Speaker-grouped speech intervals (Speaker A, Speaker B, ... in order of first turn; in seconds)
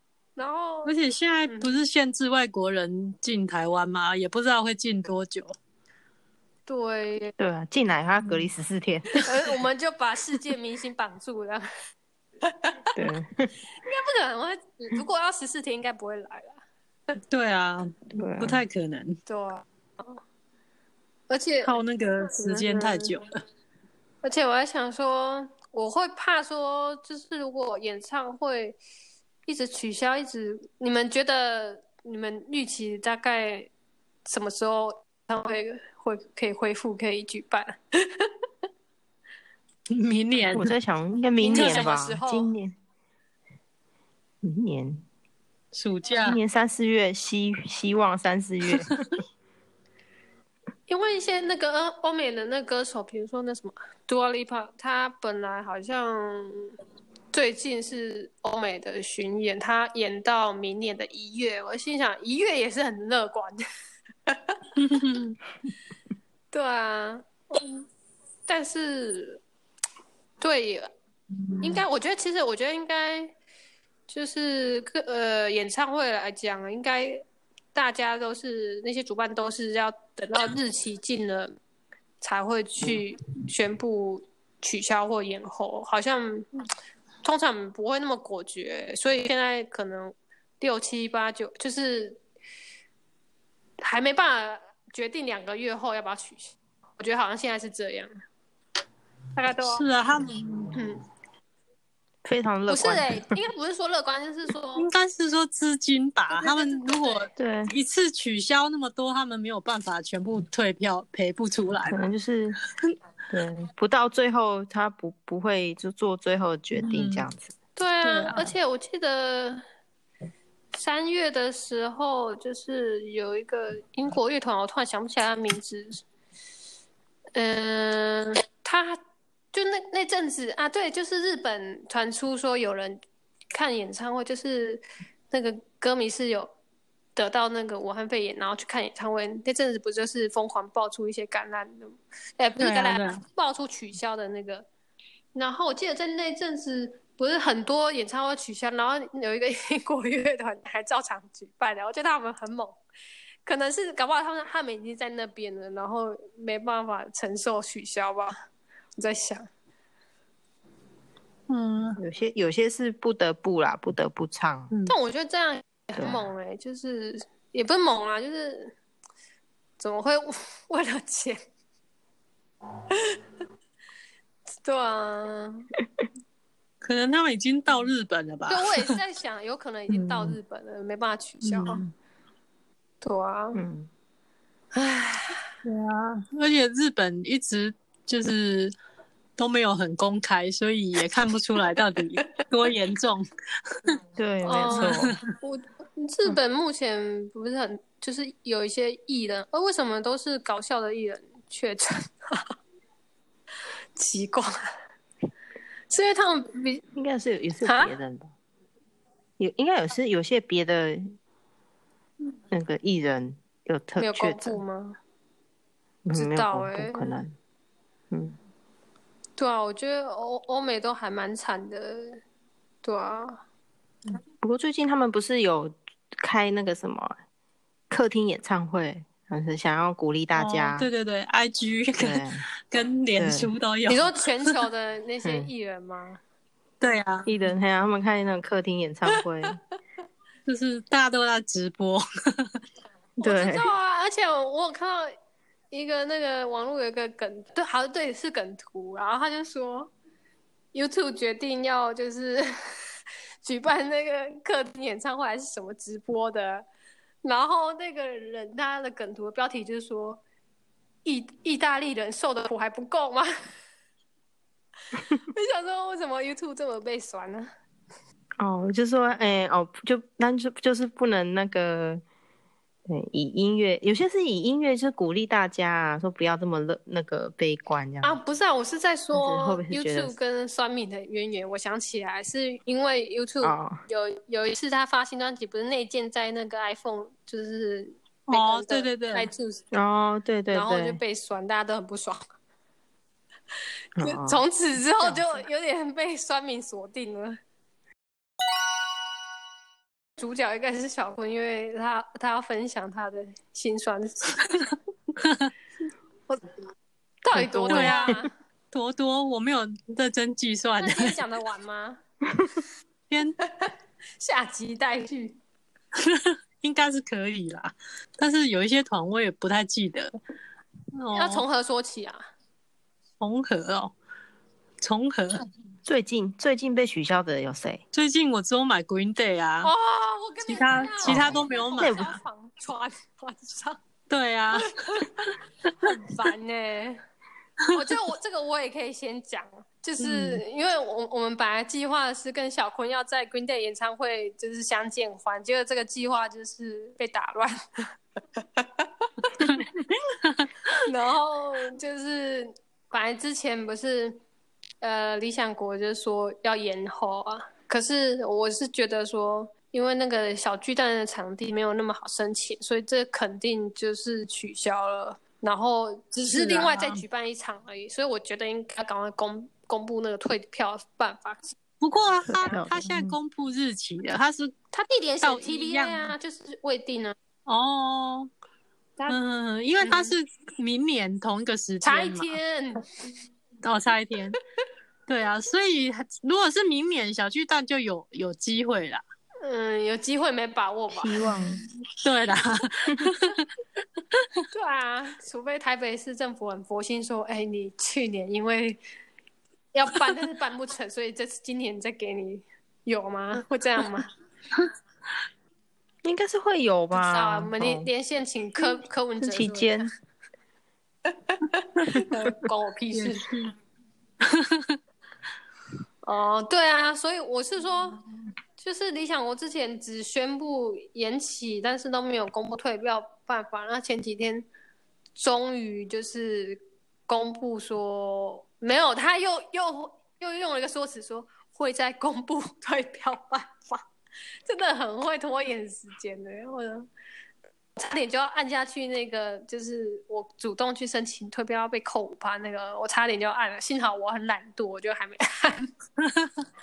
Speaker A: 0.4-0.9, 1.5-1.8, 6.7-7.3, 9.2-11.7, 13.8-16.6, 19.3-20.2, 21.3-23.2, 24.2-28.8, 29.5-33.7, 34.3-38.3, 41.4-42.5, 50.9-56.7, 57.3-63.6, 64.3-64.6, 66.5-67.9, 68.5-69.4, 70.4-70.9, 71.6-73.3, 74.1-77.2, 77.7-81.5, 82.2-86.5, 87.2-92.2, 93.8-98.1, 99.4-99.8, 100.8-101.0, 102.7-104.9, 106.3-107.3, 117.8-119.6, 120.7-126.0, 127.3-129.0, 129.5-133.0, 133.5-136.5, 137.2-144.7, 145.3-152.8, 153.4-158.3, 159.0-159.5, 164.9-168.7, 169.8-171.4, 172.9-173.2, 174.6-175.7, 178.5-181.8, 183.0-183.6, 184.7-185.5, 194.4-202.5, 204.0-204.6, 205.9-206.8, 207.6-208.0, 214.0-215.0, 216.1-217.2, 219.4-222.2, 222.8-223.4, 233.9-236.2, 239.1-239.5, 243.2-245.1, 245.7-249.9, 250.7-256.7, 257.2-260.2, 261.0-263.3, 265.2-267.5, 278.0-289.6, 290.5-292.2, 294.0-297.4, 300.2-304.7, 307.2-308.3, 310.8-312.0, 313.4-315.4, 321.1-322.2, 329.6-333.8, 334.6-335.3, 335.8-337.0, 337.7-347.8, 348.4-348.9, 350.9-354.2, 354.8-371.6, 374.7-377.1, 379.8-380.1, 381.8-382.9, 389.4-391.2, 394.5-398.8, 399.7-404.1, 406.9-409.9, 411.3-413.3, 416.0-418.0, 418.6-424.5, 425.2-433.9, 434.5-436.9, 437.8-445.7
Speaker B: 0.8-5.5, 8.2-8.5, 17.3-19.2, 21.6-23.3, 39.9-40.7, 41.5-42.0, 45.7-46.4, 64.8-65.3, 71.4-71.8, 99.7-100.8, 104.8-112.0, 116.8-117.3, 118.0-118.5, 142.6-143.2, 161.5-162.0, 176.8-178.9, 179.9-180.4, 181.4-181.9, 185.6-188.7, 189.4-193.3, 194.5-195.2, 230.3-234.6, 236.8-237.3, 240.5-242.5, 288.3-289.3, 305.2-305.5, 307.7-308.1, 308.7-311.2, 313.1-313.4, 316.0-320.1, 320.9-321.4, 323.2-323.9, 324.8-325.4, 327.9-329.7, 330.4-332.0, 334.1-335.3, 340.0-340.4, 366.1-367.0, 371.8-374.5, 375.2-376.1, 377.5-378.3, 379.1-382.4, 383.6-384.4, 385.1-389.0, 392.0-393.4, 412.9-413.5, 414.3-414.8
Speaker C: 7.4-9.1, 12.9-13.5, 18.1-18.6, 40.5-42.8, 44.4-45.0, 46.2-49.0, 102.2-103.4, 107.4-107.7, 111.9-112.6, 113.3-117.5, 162.0-164.7, 166.0-166.3, 183.6-183.9, 194.2-195.2, 206.9-208.3, 209.4-211.1, 212.5-214.6, 216.0-217.3, 218.1-218.4, 224.4-227.2, 227.9-230.9, 232.0-232.5, 233.2-233.5, 235.2-235.5, 237.3-239.6, 243.2-243.7, 268.4-272.0, 272.9-278.2, 279.1-280.1, 283.4-283.8, 289.7-291.0, 294.0-294.4, 307.3-308.1, 325.9-327.8, 331.1-332.2, 372.3-373.2, 390.9-391.6, 406.0-407.9, 409.2-409.9